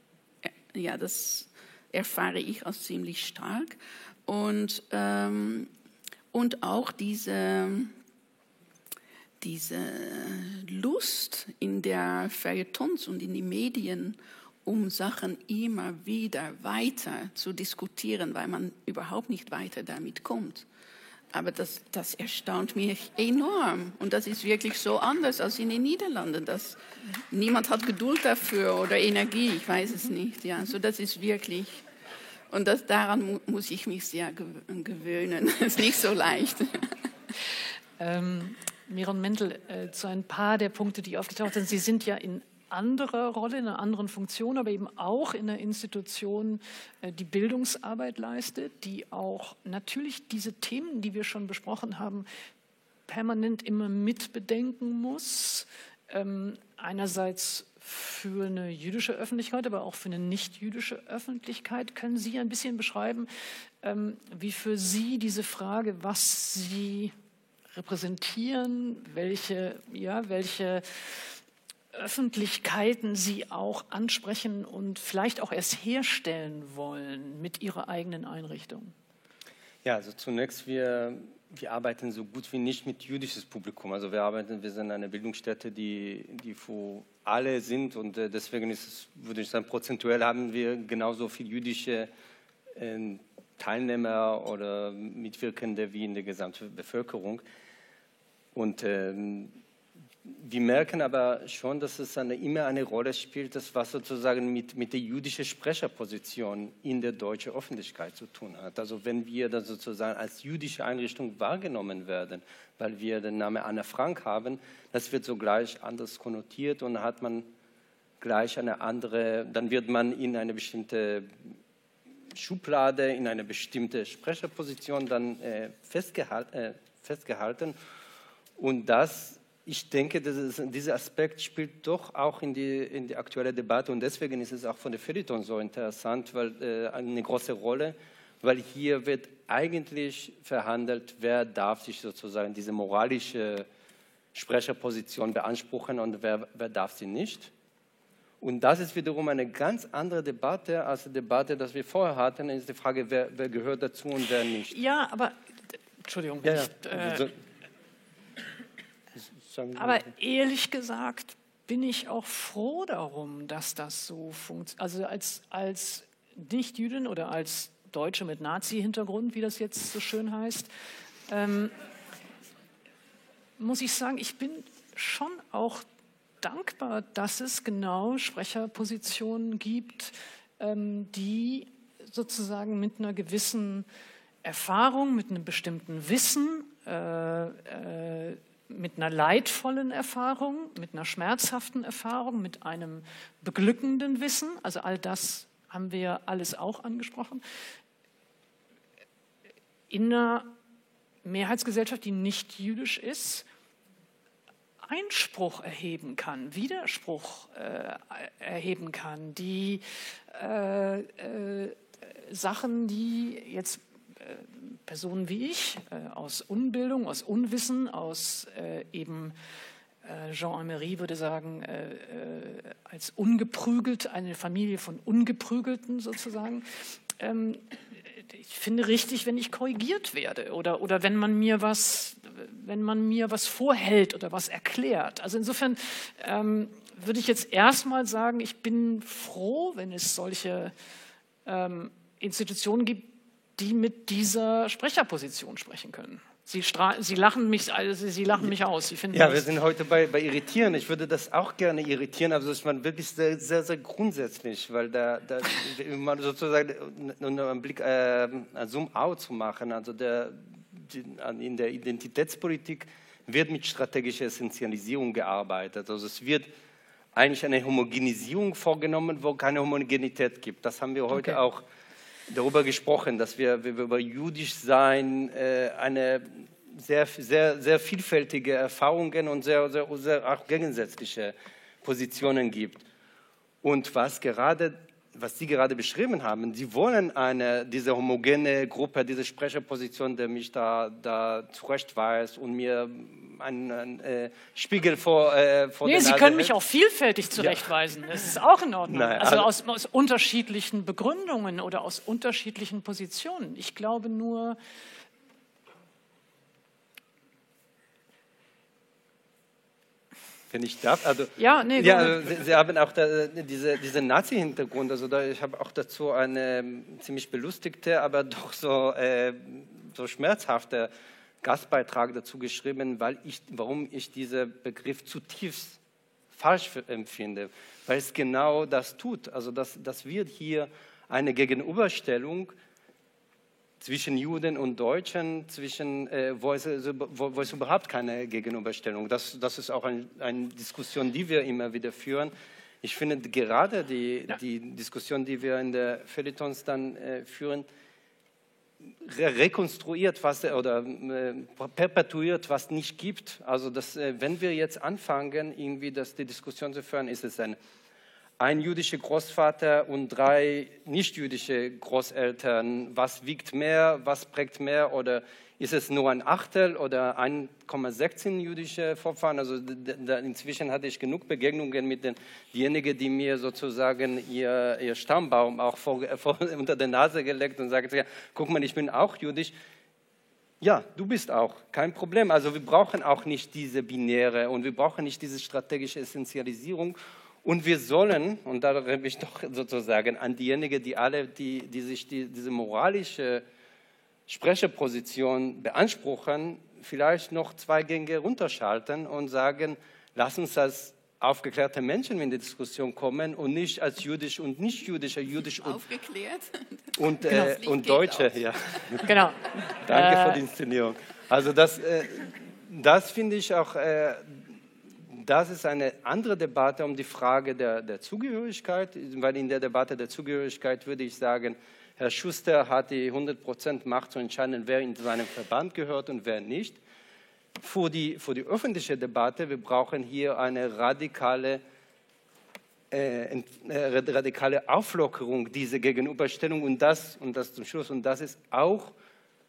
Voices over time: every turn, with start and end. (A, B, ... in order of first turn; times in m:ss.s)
0:00.4-0:05.7 A
0:06.3-0:08.0 A
0:09.4-0:20.7 A
0:21.3-0:31.8 A
0:32.5-0:37.0 A
0:38.0-0:52.3 B
0:53.1-1:03.3 B
1:03.8-1:07.2 B
1:07.7-1:11.4 B
1:11.9-1:18.9 B
1:19.8-1:32.1 C
1:32.8-1:37.4 C
1:38.6-1:39.6 C
1:40.2-1:57.5 C
1:58.2-2:01.3 C
2:02.3-2:07.8 C
2:08.6-2:23.7 C
2:24.3-2:27.5 C
2:28.4-2:34.8 C
2:34.7-2:35.4 B
2:36.0-2:37.3 B
2:36.4-2:37.3 C
2:39.4-2:40.1 C
2:39.8-2:50.7 B
2:51.3-2:51.7 B
2:53.6-2:55.9 B
2:56.4-3:03.9 B
3:04.4-3:17.4 B
3:19.9-3:20.5 B
3:21.2-3:23.5 B
3:24.8-3:39.4 B
3:40.0-4:00.7 B
4:01.4-4:09.5 B
4:09.1-4:26.5 C
4:27.2-4:31.6 C
4:31.1-4:31.4 B
4:32.3-4:42.8 C
4:43.6-4:56.5 C
4:55.8-5:04.6 B
4:57.4-4:57.7 C
4:58.9-4:59.5 C
5:10.5-5:20.9 C
5:11.4-5:12.3 B
5:21.4-5:25.8 C
5:26.3-5:32.6 C
5:33.8-5:47.7 C
5:48.9-5:57.6 C
5:58.4-6:19.5 C
6:20.6-6:33.4 C
6:34.3-6:45.8 C
6:45.5-6:49.0 A
6:47.0-6:49.1 C
6:47.3-6:47.6 B
6:49.0-6:50.4 B
6:49.8-6:54.4 C
6:55.1-7:06.8 C
7:07.6-7:11.6 C
7:12.9-7:18.9 C